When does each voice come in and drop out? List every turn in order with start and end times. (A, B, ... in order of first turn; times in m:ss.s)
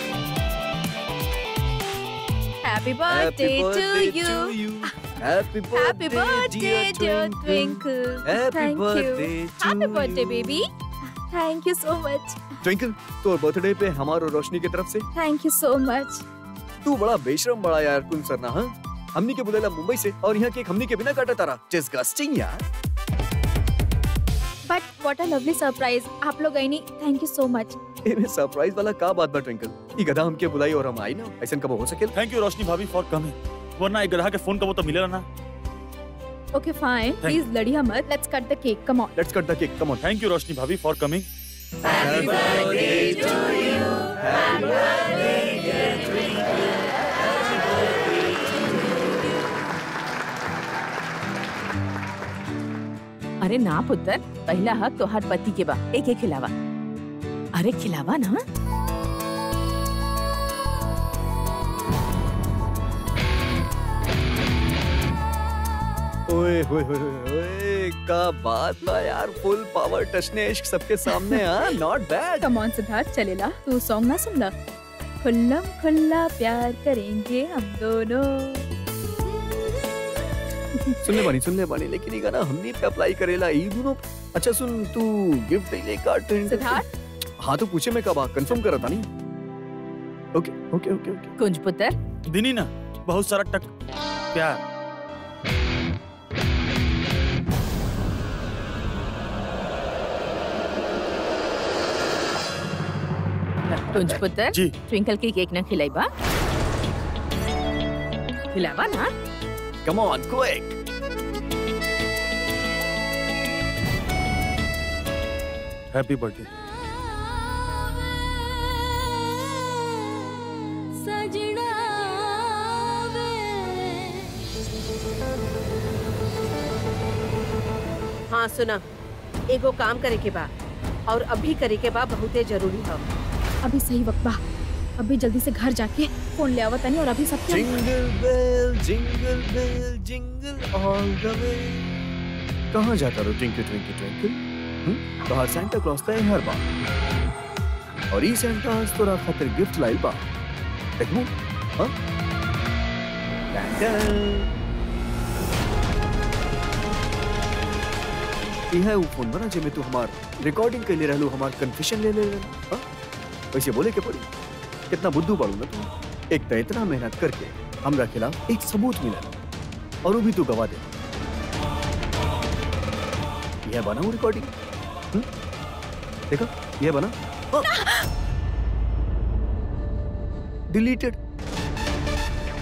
0:02.6-0:12.6 A
0:03.1-0:10.5 B
0:12.6-0:15.0 B
0:15.1-0:16.2 A
0:16.8-0:22.6 B
0:24.7-0:27.8 A
0:28.0-0:32.1 B
0:32.1-0:35.2 C
0:36.5-0:39.1 A
0:39.2-0:40.0 B
0:40.0-0:41.3 C
0:41.9-0:45.8 B
0:53.4-0:56.5 D
0:57.6-0:58.4 D
1:06.3-1:12.5 B
1:11.1-1:11.4 A
1:12.4-1:14.5 A
1:15.2-1:18.7 A
1:20.8-1:21.3 A
1:21.0-1:26.8 B
1:26.4-1:26.8 A
1:27.4-1:29.1 B
1:30.3-1:31.3 B
1:31.4-1:32.0 D
1:32.3-1:33.7 C
1:34.3-1:34.6 C
1:43.7-1:46.1 D
1:48.5-1:49.1 D
1:49.8-1:50.8 B
1:55.9-1:56.5 C
2:01.0-2:02.4 A
2:08.3-2:08.8 E
2:09.5-2:10.5 E
2:11.1-2:13.0 E
2:13.6-2:14.4 A
2:15.0-2:17.8 A
2:17.5-2:21.8 B
2:22.7-2:26.6 B
2:28.1-2:30.2 B
2:31.0-2:31.9 B
2:33.5-2:34.5 B
2:38.7-2:42.8 B
2:43.5-2:44.3 B
2:44.9-2:49.3 B
2:50.0-2:50.9 B
2:53.6-2:54.5 B
2:56.3-2:57.7 B
2:57.6-2:58.0 A
3:00.7-3:01.2 B